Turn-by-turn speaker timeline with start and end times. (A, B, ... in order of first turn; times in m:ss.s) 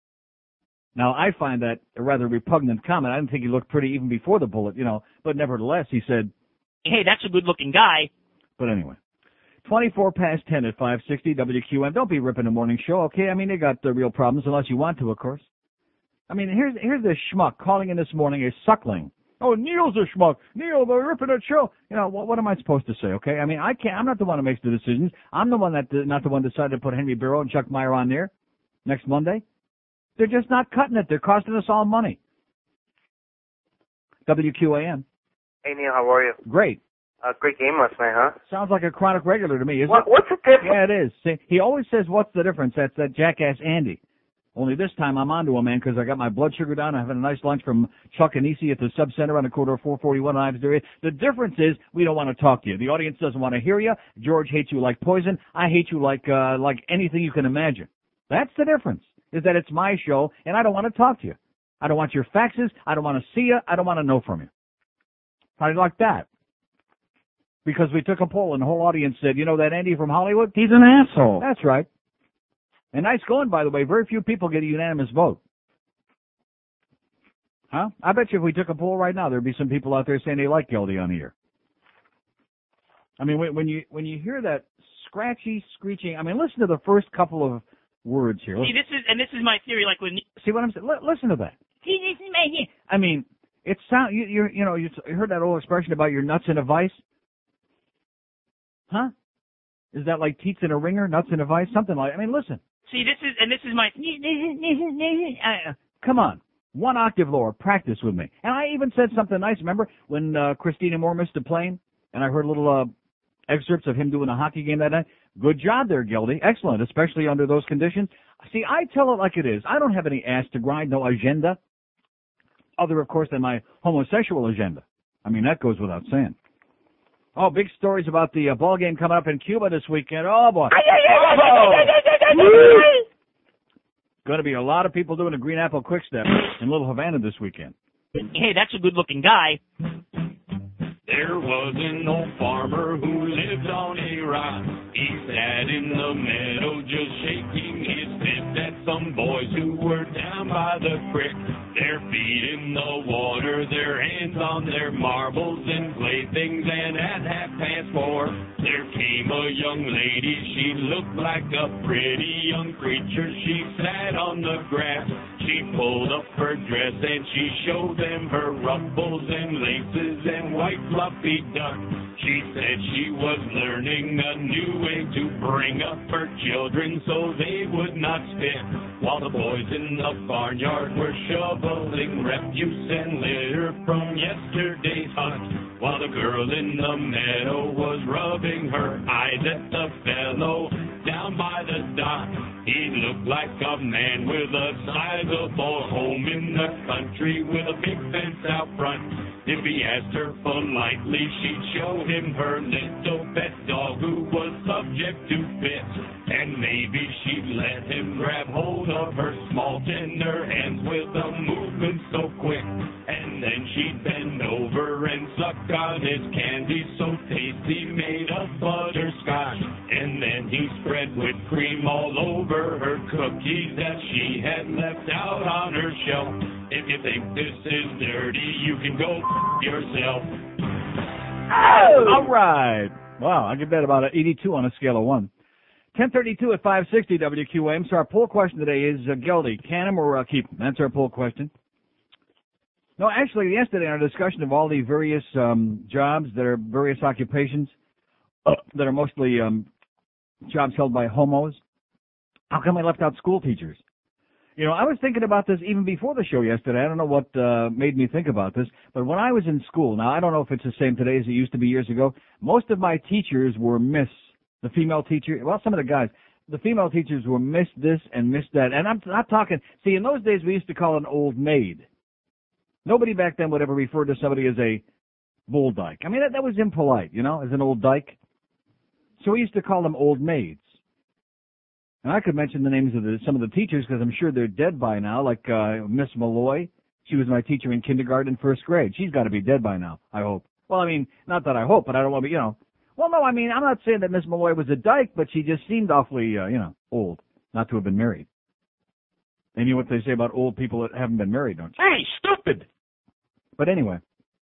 0:01.0-0:06.3 A
0:06.8-0:08.1 B
0:08.6-0:09.0 A
0:09.6-0:15.4 A
0:16.3-0:28.3 A
0:28.8-0:29.4 A
0:30.2-0:32.2 A
0:34.2-0:35.0 A
0:35.6-0:36.4 C
0:36.4-0:36.8 A
0:37.2-0:38.4 C
0:38.5-0:40.1 A
0:39.9-0:40.5 C
0:40.6-0:44.0 A
0:44.5-1:04.5 A
1:05.6-1:06.2 A
1:07.6-1:10.6 A
1:11.3-1:11.9 A
1:12.9-1:15.4 A
1:17.7-1:21.3 A
1:23.2-1:28.7 A
1:28.6-1:30.2 B
1:30.4-1:31.6 A
1:31.8-1:32.7 B
1:32.9-1:37.0 A
1:39.9-1:42.6 A
1:42.9-1:45.4 B
1:45.4-1:52.9 A
1:53.5-2:01.6 A
2:02.8-2:06.3 A
2:07.4-2:12.7 A
2:12.4-2:12.8 B
2:14.2-2:17.7 A
2:18.3-2:19.6 B
2:21.1-3:50.4 D
3:51.9-3:55.3 A
3:55.9-4:01.5 A
4:03.0-4:07.7 A
4:08.4-4:09.7 A
4:10.4-4:11.6 A
4:12.5-4:13.8 A
4:14.6-4:31.8 A
4:32.8-4:34.8 A
4:35.5-4:38.2 A
4:39.2-4:40.8 A
4:42.0-4:58.2 A
4:59.6-5:02.5 A
5:03.6-5:04.0 A